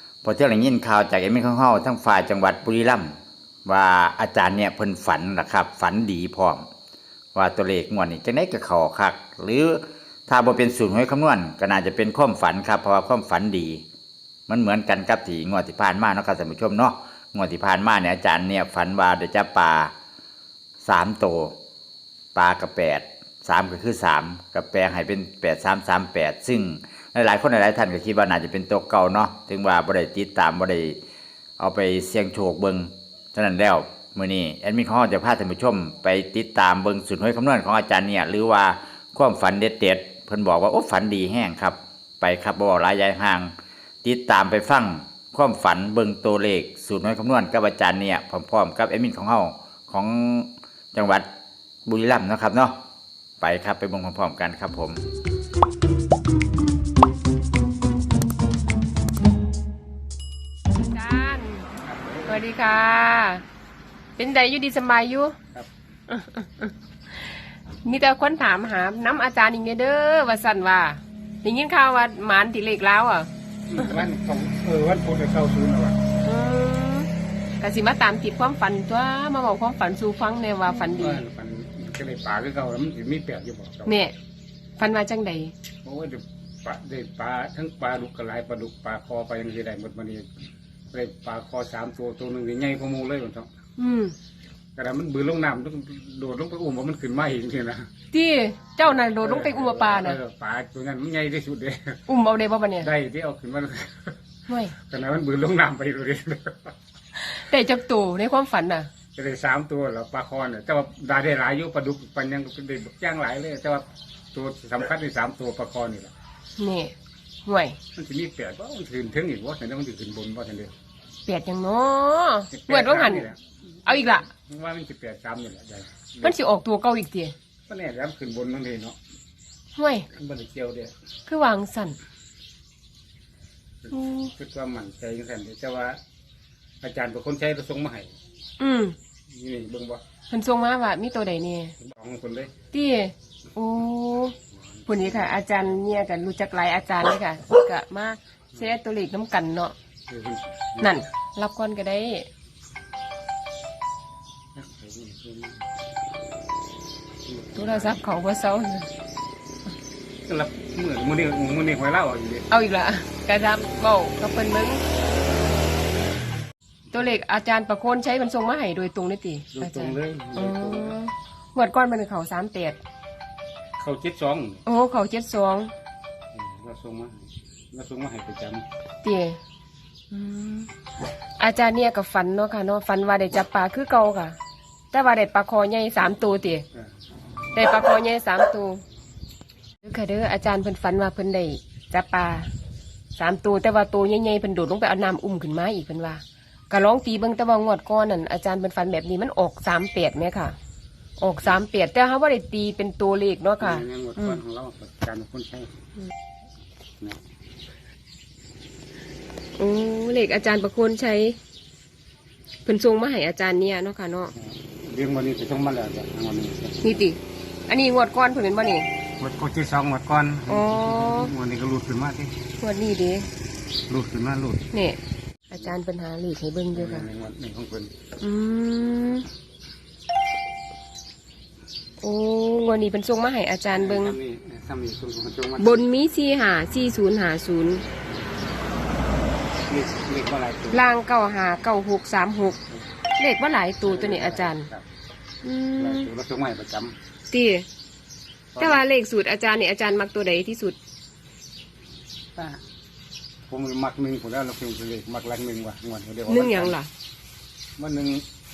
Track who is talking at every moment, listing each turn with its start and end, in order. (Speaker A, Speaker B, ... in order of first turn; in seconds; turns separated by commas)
Speaker A: 0.2-6.6, Speaker A: 7.3-13.8, Speaker A: 14.5-19.9, Speaker A: 20.8-21.6, Speaker A: 22.4-31.0, Speaker A: 31.6-43.5, Speaker A: 44.0-51.3, Speaker A: 51.9-52.8, Speaker A: 53.4-55.0, Speaker B: 60.8-61.7, Speaker C: 61.8-62.4, Speaker B: 62.3-63.4, Speaker B: 64.2-65.4, Speaker B: 66.1-66.7, Speaker B: 67.8-73.3, Speaker C: 73.7-76.0, Speaker B: 76.2-81.2, Speaker C: 80.9-83.9, Speaker B: 83.9-84.1, Speaker B: 84.8-85.5, Speaker C: 85.8-90.3, Speaker C: 90.9-93.5, Speaker B: 93.8-94.2, Speaker C: 94.8-97.9, Speaker B: 98.1-100.2, Speaker C: 98.8-102.0, Speaker B: 102.1-102.9, Speaker C: 102.8-104.2, Speaker B: 104.5-104.8, Speaker C: 104.8-106.7, Speaker B: 107.2-108.9, Speaker C: 109.2-116.1, Speaker B: 116.6-116.9, Speaker B: 117.5-117.8, Speaker C: 118.0-120.7, Speaker B: 121.3-123.3, Speaker C: 122.5-126.4, Speaker B: 123.9-124.3, Speaker B: 126.2-127.3, Speaker C: 127.7-129.0, Speaker B: 129.8-130.1, Speaker C: 130.1-130.9, Speaker B: 131.3-132.0, Speaker C: 133.8-136.0, Speaker B: 133.9-134.2, Speaker C: 136.8-138.1, Speaker B: 138.6-139.0, Speaker C: 139.3-140.0, Speaker B: 140.3-141.8, Speaker C: 141.8-142.5, Speaker B: 142.7-144.4, Speaker C: 144.7-145.7, Speaker B: 144.9-149.7, Speaker C: 150.1-150.9, Speaker B: 150.8-152.3, Speaker C: 154.6-155.7, Speaker C: 157.3-158.0, Speaker B: 157.6-158.9, Speaker C: 160.3-162.5, Speaker B: 162.5-164.8, Speaker B: 166.9-172.8, Speaker C: 169.6-171.0, Speaker C: 173.8-174.6, Speaker B: 174.7-175.7, Speaker C: 176.3-178.7, Speaker B: 179.0-179.4, Speaker C: 180.1-180.7, Speaker B: 181.4-184.4, Speaker B: 184.9-186.7, Speaker B: 187.5-188.8, Speaker B: 189.8-192.5, Speaker B: 193.2-200.5, Speaker B: 201.2-204.4, Speaker C: 203.6-205.7, Speaker B: 209.6-211.4, Speaker B: 212.7-214.3, Speaker C: 214.3-216.8, Speaker B: 216.8-218.9, Speaker C: 219.2-222.4, Speaker B: 220.5-221.3, Speaker B: 222.6-223.3, Speaker C: 223.9-224.7, Speaker B: 224.7-225.0, Speaker B: 225.5-227.1, Speaker C: 226.7-227.9, Speaker B: 228.2-229.3, Speaker B: 232.0-234.2, Speaker C: 233.7-235.9, Speaker B: 235.6-237.8, Speaker C: 239.7-241.0, Speaker B: 240.7-242.6, Speaker B: 243.2-244.7, Speaker C: 243.8-244.8, Speaker B: 245.4-246.1, Speaker C: 245.8-247.0, Speaker B: 247.3-247.7, Speaker C: 248.5-248.8, Speaker B: 248.6-250.8, Speaker C: 252.3-252.6, Speaker C: 253.5-256.8, Speaker B: 256.3-256.9, Speaker C: 257.8-258.2